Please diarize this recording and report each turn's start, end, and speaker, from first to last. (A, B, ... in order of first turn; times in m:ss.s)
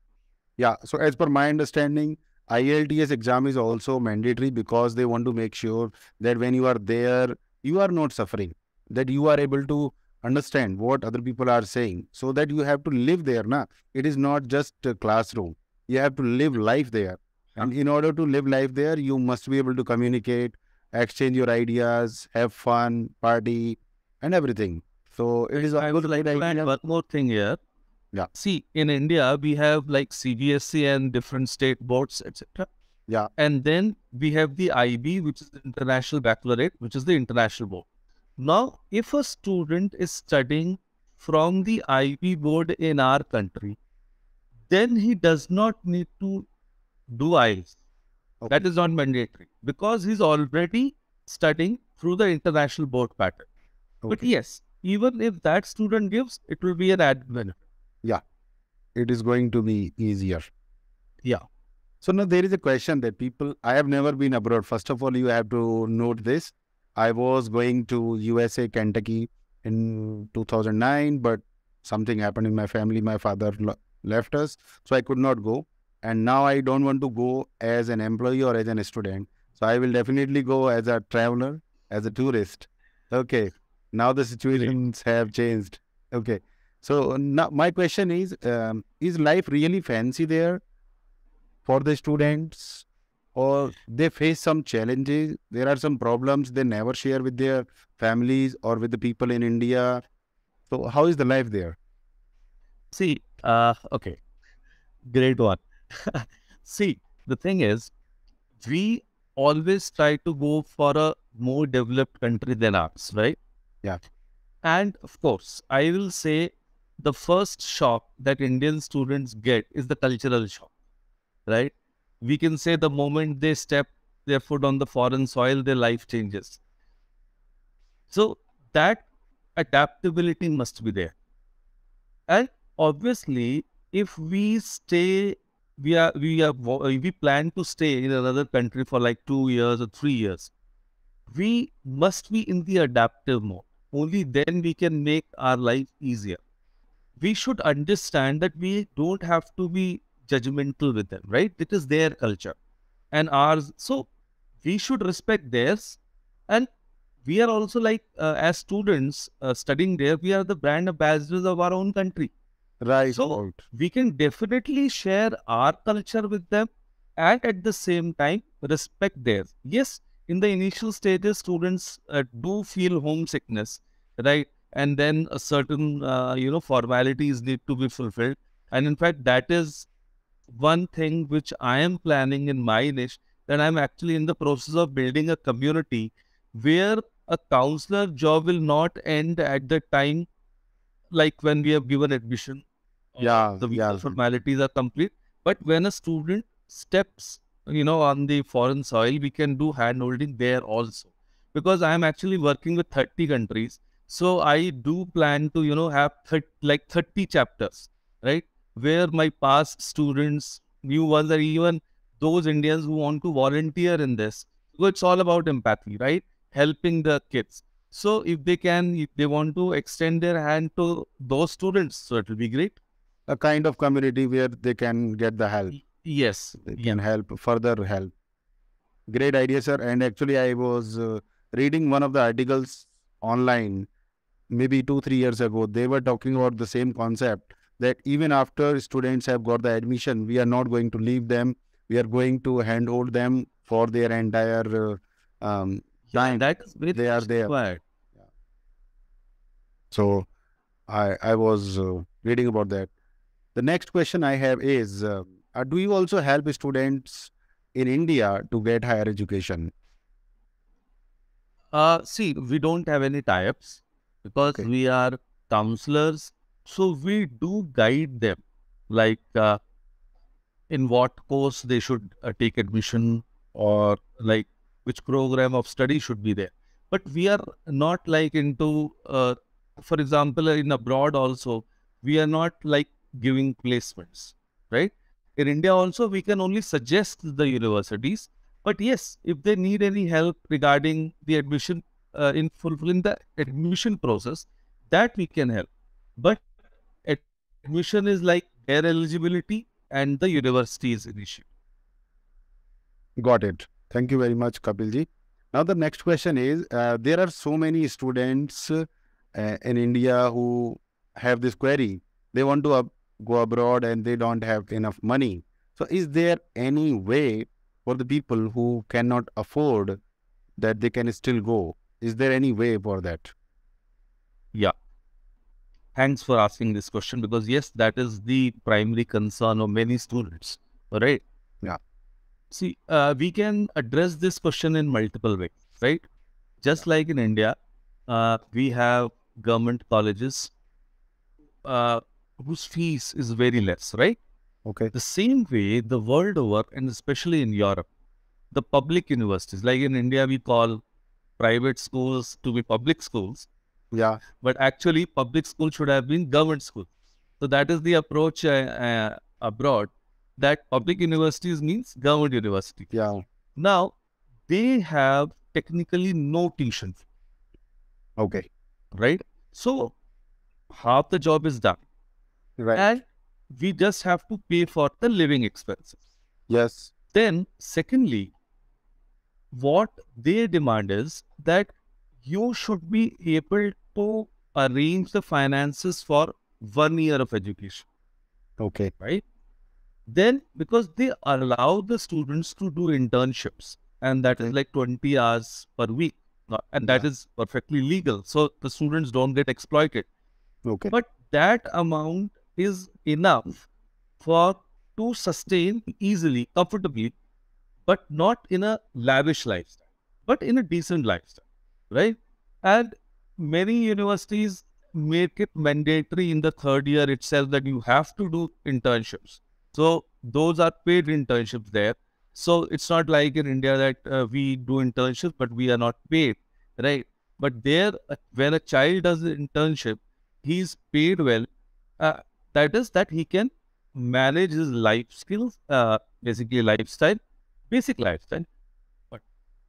0:00.6-0:26.7 A
0:25.5-0:27.6 B
0:28.3-0:32.7 B
0:33.4-0:37.8 B
0:38.4-0:43.8 B
0:44.7-0:46.5 B
0:47.1-0:47.7 B
0:48.5-0:53.5 B
0:54.0-0:54.3 A
0:54.1-0:57.6 B
0:58.9-1:00.5 A
1:02.0-1:30.6 A
1:31.6-1:40.0 A
1:40.7-1:41.8 A
1:42.9-1:44.2 B
1:45.0-1:47.9 B
1:48.6-1:53.4 B
1:54.6-2:00.7 B
2:01.5-2:06.6 B
2:08.1-2:11.1 B
2:12.3-2:20.5 B
2:21.3-2:26.4 B
2:27.2-2:32.5 B
2:33.1-2:34.1 B
2:34.6-2:36.7 B
2:37.2-2:42.3 B
2:42.8-2:43.6 A
2:43.1-2:59.9 B
3:00.5-3:10.3 B
3:11.1-3:12.6 B
3:13.1-3:42.8 B
3:13.2-3:14.1 A
3:43.3-3:45.8 A
3:45.7-3:47.0 B
3:46.6-3:48.1 A
3:49.1-3:53.9 A
3:54.5-4:07.5 A
4:06.1-4:07.8 B
4:09.9-4:10.3 A
4:10.9-4:12.9 A
4:13.5-4:19.7 A
4:21.7-4:29.6 B
4:30.7-4:56.4 B
4:57.0-5:01.4 B
5:03.2-5:20.0 A
5:20.6-5:23.3 A
5:25.9-5:31.2 B
5:32.5-5:36.0 B
5:36.6-5:37.5 B
5:38.1-5:40.5 B
5:41.6-5:44.2 B
5:44.6-5:44.9 A
5:44.9-5:47.8 B
5:48.5-5:50.8 B
5:51.4-5:53.5 B
5:53.9-5:54.2 A
5:54.3-5:56.9 B
5:57.4-6:02.9 B
6:02.9-6:03.2 A
6:03.6-6:03.9 B
6:04.5-6:07.0 B
6:08.2-6:08.5 A
6:08.9-6:09.9 B
6:10.7-6:11.8 B
6:12.6-6:13.0 A
6:12.7-6:16.0 B
6:16.5-6:16.9 A
6:17.1-6:18.3 B
6:19.5-6:21.7 B
6:22.2-6:27.8 B
6:28.6-6:28.9 A
6:29.0-6:29.2 B
6:30.1-6:40.1 B
6:40.6-6:40.9 A
6:40.9-6:43.6 B
6:44.2-6:47.1 B
6:47.9-7:11.5 B
7:12.0-7:17.2 B
7:17.7-7:18.5 B